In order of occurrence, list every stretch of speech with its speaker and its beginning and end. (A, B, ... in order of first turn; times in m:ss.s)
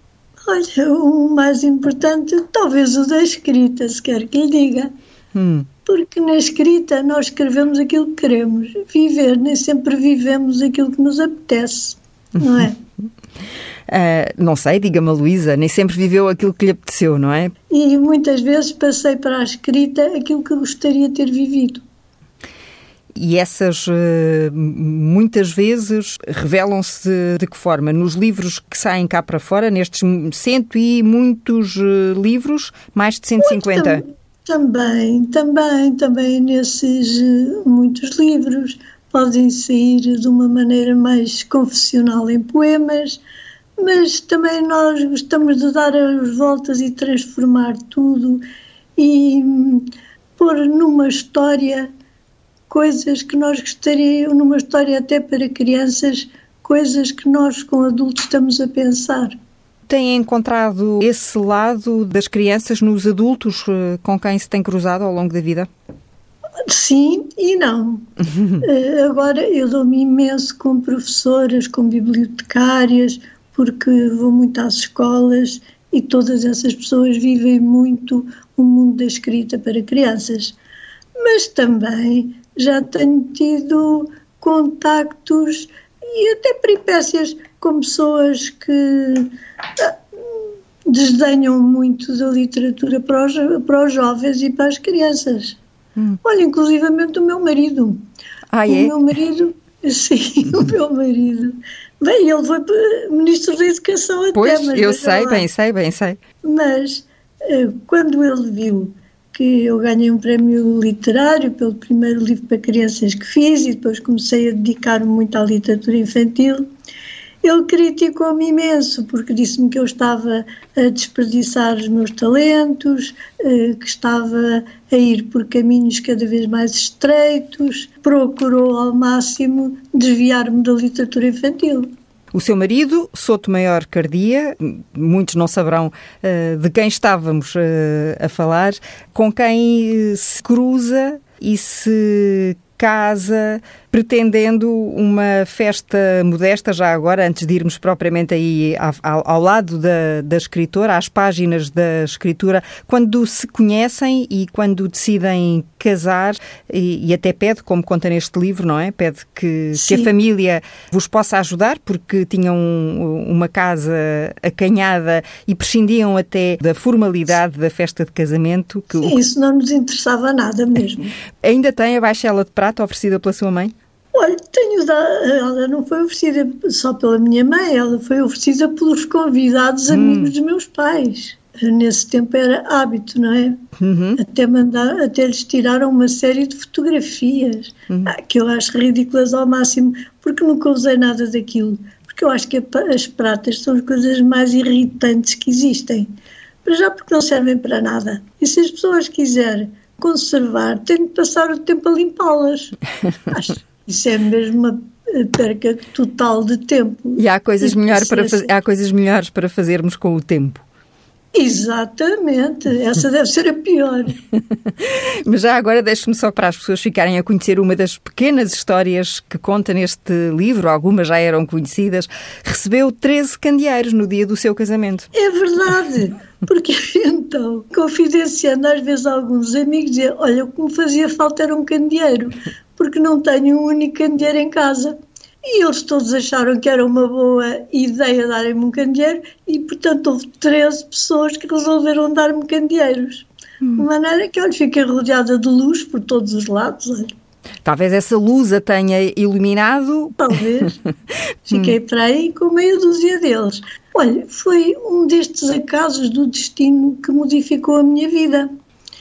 0:00.4-0:04.9 A
0:05.3-0:05.7 B
0:05.8-0:12.8 A
0:12.4-0:12.7 B
0:13.9-0:17.5 B
0:17.7-0:21.8 A
0:23.2-0:34.0 B
0:33.4-0:43.2 A
0:43.8-0:48.4 A
0:49.0-0:51.9 A
0:52.7-0:59.4 A
0:59.9-1:05.7 B
1:06.6-1:08.1 A
1:08.2-1:08.6 B
1:08.6-1:20.6 A
1:21.2-1:35.6 A
1:36.2-1:38.0 A
1:38.5-1:38.9 B
1:38.7-1:45.4 A
1:44.3-1:46.2 B
1:46.4-1:56.7 A
1:57.4-2:11.9 A
2:12.3-2:49.2 B
2:39.7-2:40.1 A
2:49.0-2:51.1 A
2:51.4-2:53.7 B
2:54.1-3:03.6 A
2:59.9-3:00.3 B
3:03.8-3:04.2 B
3:04.2-3:16.1 A
3:16.6-3:22.8 A
3:23.3-3:28.5 A
3:27.2-3:30.6 B
3:31.3-3:34.2 A
3:34.8-3:45.1 B
3:45.1-4:07.1 A
4:07.6-4:10.3 B
4:10.2-4:10.8 A
4:11.5-4:18.5 A